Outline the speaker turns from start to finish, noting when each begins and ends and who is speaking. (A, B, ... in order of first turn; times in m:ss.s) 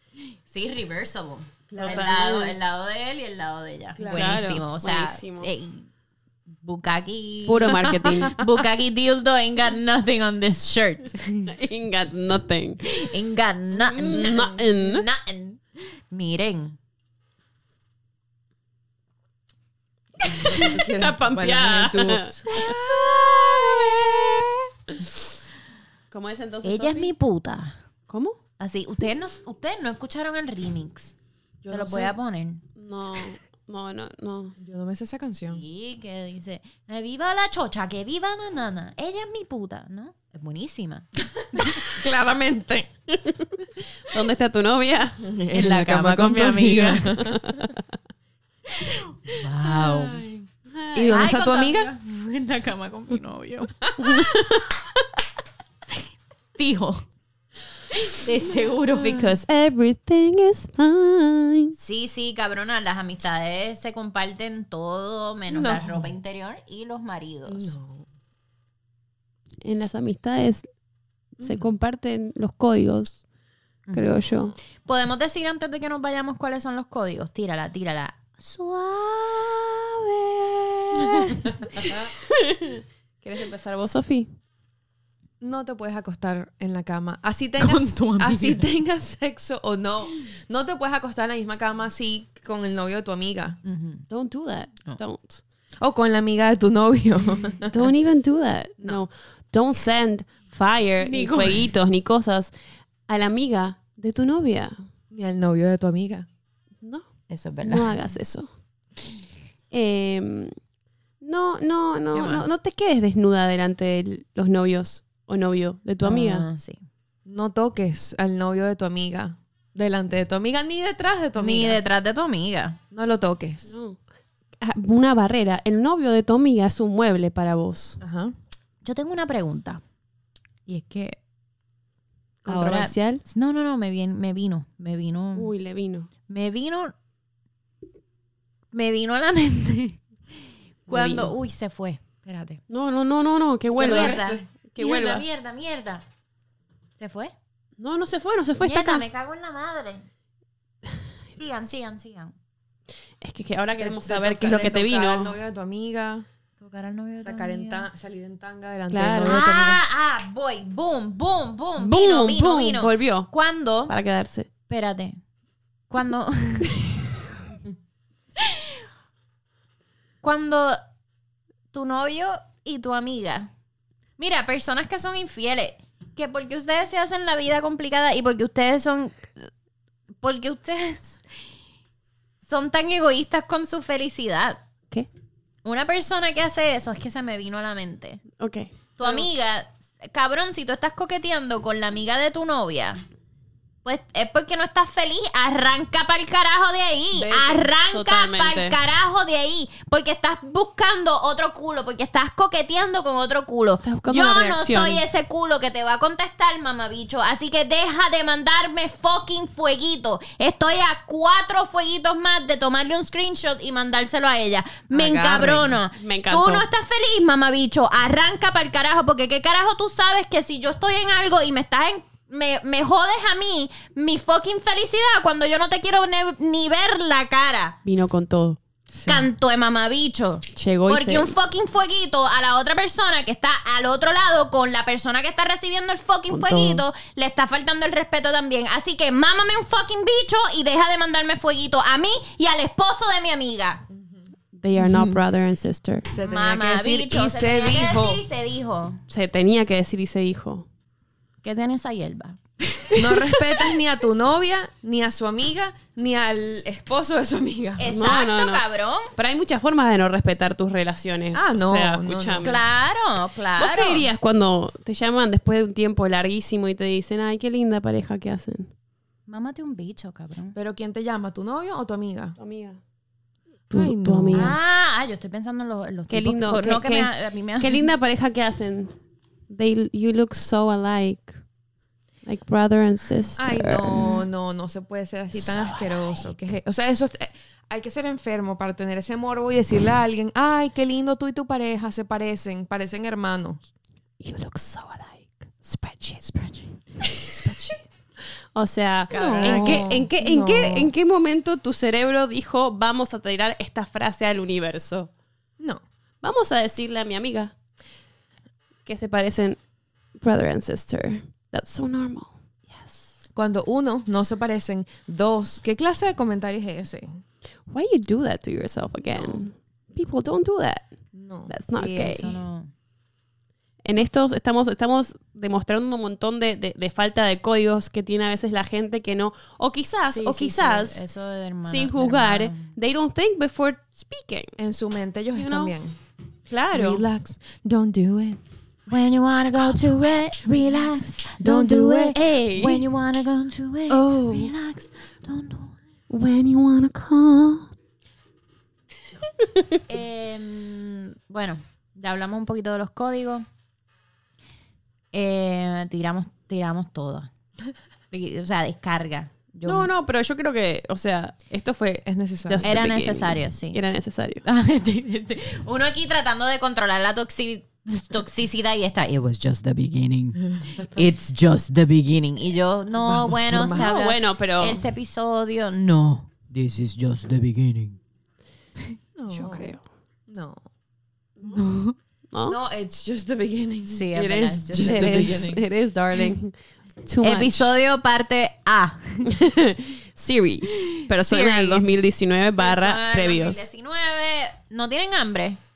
0:00.4-0:05.9 A
0:01.7-0:02.2 B
0:01.8-0:02.6 C
0:03.9-0:04.5 B
0:04.0-0:05.5 C
0:06.6-0:11.5 A
0:07.5-0:08.4 C
0:11.5-0:12.8 C
0:12.8-0:16.8 A
0:13.8-0:15.0 C
0:14.1-0:14.4 B
0:20.2-0:22.7 B
0:20.3-0:20.6 A
0:20.9-0:24.6 C
0:22.5-0:24.5 A
0:26.1-0:27.1 C
0:26.6-0:27.8 A
0:28.1-0:28.4 C
0:28.6-0:31.2 A
0:31.6-0:32.1 B
0:31.7-0:32.6 A
0:32.8-0:34.5 C
0:34.6-0:35.6 B
0:35.5-0:41.8 A
0:41.8-0:42.9 B
0:43.1-0:45.2 C
0:45.2-0:47.6 B
0:45.5-0:47.3 A
0:46.6-0:47.8 C
0:48.7-0:50.4 A
0:49.5-0:50.2 B
0:50.7-0:51.2 C
0:50.9-0:51.9 B
0:51.1-0:54.2 A
0:54.0-0:55.0 C
0:56.6-0:57.0 A
0:57.9-0:59.3 A
0:58.9-1:01.7 C
1:01.8-1:07.7 A
1:05.5-1:06.1 B
1:07.4-1:08.1 B
1:09.6-1:10.7 C
1:11.4-1:13.2 C
1:13.9-1:14.5 C
1:14.8-1:21.6 A
1:21.7-1:24.3 C
1:21.8-1:22.1 B
1:25.4-1:33.6 B
1:27.6-1:28.7 A
1:33.6-1:34.0 A
1:34.1-1:35.4 C
1:35.8-1:37.9 B
1:37.7-1:42.5 C
1:41.0-1:41.7 A
1:43.1-1:44.8 C
1:45.1-1:46.2 B
1:46.8-1:47.1 C
1:47.3-1:48.0 A
1:47.6-1:48.5 C
1:49.7-1:50.6 C
1:51.2-1:56.4 C
1:52.1-1:52.4 A
1:56.0-1:56.8 A
1:57.2-2:01.8 B
2:01.4-2:02.8 A
2:02.9-2:03.7 B
2:03.7-2:04.0 C
2:04.6-2:08.0 C
2:08.0-2:08.3 B
2:08.8-2:09.8 A
2:10.6-2:11.2 A
2:12.4-2:13.2 C
2:12.4-2:15.5 A
2:15.4-2:16.1 C
2:16.3-2:16.9 A
2:18.7-2:20.0 A
2:20.8-2:22.6 A
2:20.9-2:21.3 C
2:22.7-2:24.2 C
2:23.8-2:24.5 B
2:23.8-2:26.0 A
2:24.7-2:25.2 C
2:27.0-2:27.3 A
2:27.8-2:29.0 C
2:28.6-2:30.0 A
2:31.4-2:32.3 A
2:33.2-2:35.3 C
2:33.8-2:36.2 B
2:36.6-2:37.9 A
2:37.2-2:39.8 B
2:38.9-2:39.7 C
2:39.2-2:43.9 A
2:41.8-2:43.3 C
2:43.9-2:44.5 C
2:44.7-2:45.2 A
2:45.9-2:46.8 A
2:48.4-2:48.7 A
2:50.2-2:50.8 A
2:51.7-2:53.5 A
2:54.2-2:59.5 A
3:00.2-3:01.2 A
3:02.4-3:04.6 A
3:05.6-3:08.2 A
3:08.4-3:09.2 C
3:09.0-3:13.0 A
3:13.8-3:47.8 A
3:17.1-3:17.7 B
3:17.9-3:18.8 C
3:23.8-3:25.0 C
3:34.9-3:35.8 B
3:36.0-3:36.6 C
3:47.8-3:48.6 C
3:48.9-3:49.3 B
3:49.0-4:03.8 A
3:50.5-3:51.3 C
3:56.3-3:56.8 C
4:04.6-4:06.1 C
4:04.8-4:05.2 B
4:06.0-4:08.2 B
4:06.2-4:09.0 A
4:09.1-4:10.6 C
4:11.4-4:13.3 A
4:12.9-4:18.0 B
4:17.8-4:19.1 A
4:17.9-4:18.6 C
4:19.1-4:22.6 C
4:21.3-4:22.4 B
4:22.4-4:24.1 A
4:23.6-4:28.7 C
4:29.3-4:30.6 A
4:30.5-4:32.4 B
4:32.4-4:32.8 C
4:33.7-4:34.5 B
4:33.7-4:34.6 C
4:34.3-4:37.9 A
4:36.1-4:39.0 C
4:39.5-4:41.4 C
4:42.2-4:44.2 C
4:43.4-4:53.6 B
4:45.4-4:46.1 C
4:54.2-4:57.8 C
4:56.4-4:56.6 A
4:58.5-5:05.1 C
4:59.1-5:00.0 A
4:59.1-5:00.9 B
5:06.2-5:07.5 C
5:08.8-5:09.6 C
5:10.2-5:13.2 C
5:13.3-5:17.2 B
5:17.7-5:21.0 C
5:19.1-5:19.4 B
5:21.1-5:21.5 B
5:21.5-5:22.4 C
5:21.7-5:22.7 A
5:23.8-5:31.1 C
5:30.0-5:32.7 A
5:31.6-5:34.5 C
5:34.6-5:35.9 B
5:35.3-5:35.8 C
5:36.5-5:37.0 C
5:36.7-5:38.4 B
5:38.9-5:45.8 A
5:41.4-5:42.2 B
5:42.1-5:42.9 C
5:43.9-5:44.5 C
5:46.1-5:47.7 C
5:49.9-5:53.4 A
5:55.1-5:57.3 A
5:58.1-5:59.9 A
5:59.6-6:04.4 C
6:02.0-6:02.7 B
6:02.6-6:03.8 A
6:04.4-6:18.0 A
6:12.9-6:14.0 B
6:13.6-6:14.8 C
6:19.2-6:19.7 B
6:19.3-6:19.8 C
6:20.3-6:20.6 B
6:21.5-6:22.0 A
6:22.3-6:22.6 C
6:22.4-6:25.6 B
6:23.9-6:25.5 A
6:24.8-6:26.5 C
6:27.0-6:27.7 C
6:27.2-6:29.3 A
6:29.3-6:33.7 C
6:31.1-6:32.0 A
6:32.6-6:35.6 A